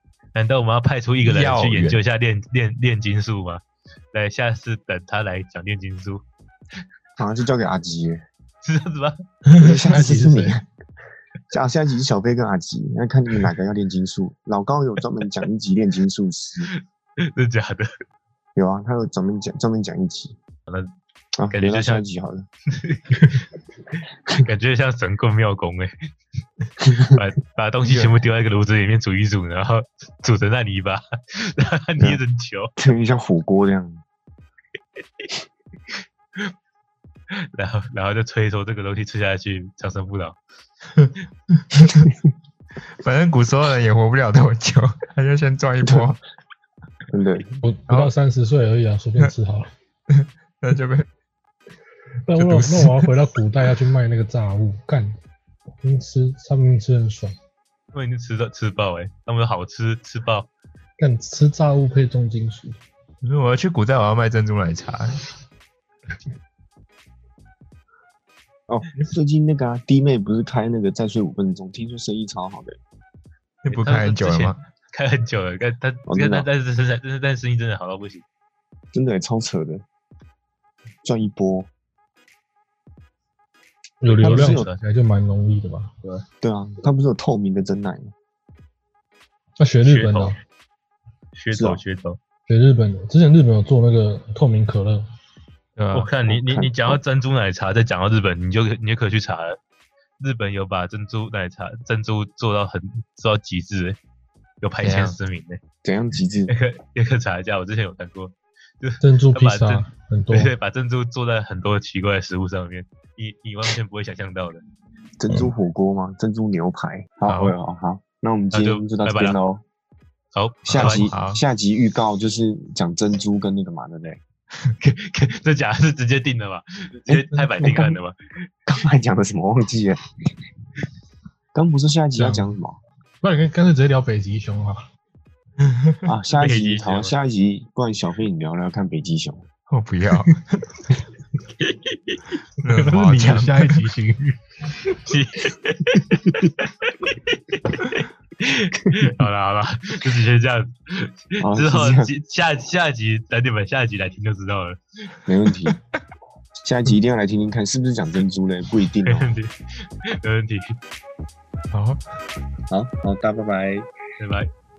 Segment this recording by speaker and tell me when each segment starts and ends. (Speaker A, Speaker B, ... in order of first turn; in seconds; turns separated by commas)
Speaker A: 0.3-6.2, Speaker B: 1.2-2.0, Speaker C: 7.2-8.2, Speaker A: 8.6-9.2, Speaker C: 9.6-10.7, Speaker D: 9.6-10.6, Speaker C: 11.5-16.7, Speaker A: 16.7-17.9, Speaker C: 18.6-20.4, Speaker C: 21.4-22.4, Speaker A: 21.5-22.1, Speaker A: 22.7-23.4, Speaker A: 24.0-25.9, Speaker C: 26.9-27.1, Speaker A: 27.0-32.7, Speaker C: 32.8-34.0, Speaker A: 37.3-40.4, Speaker B: 40.9-42.1, Speaker B: 42.9-46.2, Speaker C: 45.8-46.1, Speaker C: 47.1-47.5, Speaker D: 47.6-49.7, Speaker B: 50.1-51.1, Speaker D: 52.3-55.2, Speaker B: 52.4-53.1, Speaker D: 55.8-57.4, Speaker A: 57.9-60.5, Speaker D: 61.0-62.8, Speaker B: 63.2-65.2, Speaker C: 68.7-72.8, Speaker B: 73.6-74.6, Speaker A: 73.7-78.2, Speaker C: 76.1-76.5, Speaker C: 78.9-79.8, Speaker C: 81.0-81.7, Speaker D: 84.0-85.9, Speaker C: 84.2-84.7, Speaker A: 84.2-84.8, Speaker C: 86.4-88.1, Speaker D: 89.6-90.4, Speaker A: 89.8-90.3, Speaker A: 91.4-92.2, Speaker C: 91.5-91.8, Speaker D: 92.5-95.0, Speaker B: 95.8-96.1, Speaker A: 95.9-99.6, Speaker C: 96.3-97.0, Speaker A: 100.2-104.0, Speaker A: 104.6-105.6, Speaker B: 104.8-105.2, Speaker C: 105.8-106.5, Speaker A: 106.5-114.6, Speaker D: 109.0-110.5, Speaker C: 115.2-119.6, Speaker B: 117.3-117.5, Speaker A: 118.5-119.4, Speaker A: 120.3-121.1, Speaker C: 120.7-124.2, Speaker B: 120.8-121.4, Speaker A: 124.8-128.2, Speaker D: 127.6-127.9, Speaker C: 128.7-130.1, Speaker C: 131.5-132.8, Speaker D: 132.2-132.5, Speaker D: 133.2-134.8, Speaker B: 135.6-136.0, Speaker C: 136.1-139.5, Speaker A: 136.3-137.1, Speaker B: 139.7-140.8, Speaker A: 141.6-142.2, Speaker B: 142.6-143.8, Speaker D: 142.7-145.0, Speaker A: 145.1-154.8, Speaker C: 151.4-152.1, Speaker C: 155.3-155.8, Speaker C: 156.6-159.3, Speaker A: 159.1-159.5, Speaker A: 160.1-160.8, Speaker B: 161.7-162.0, Speaker C: 162.7-163.9, Speaker A: 164.2-164.5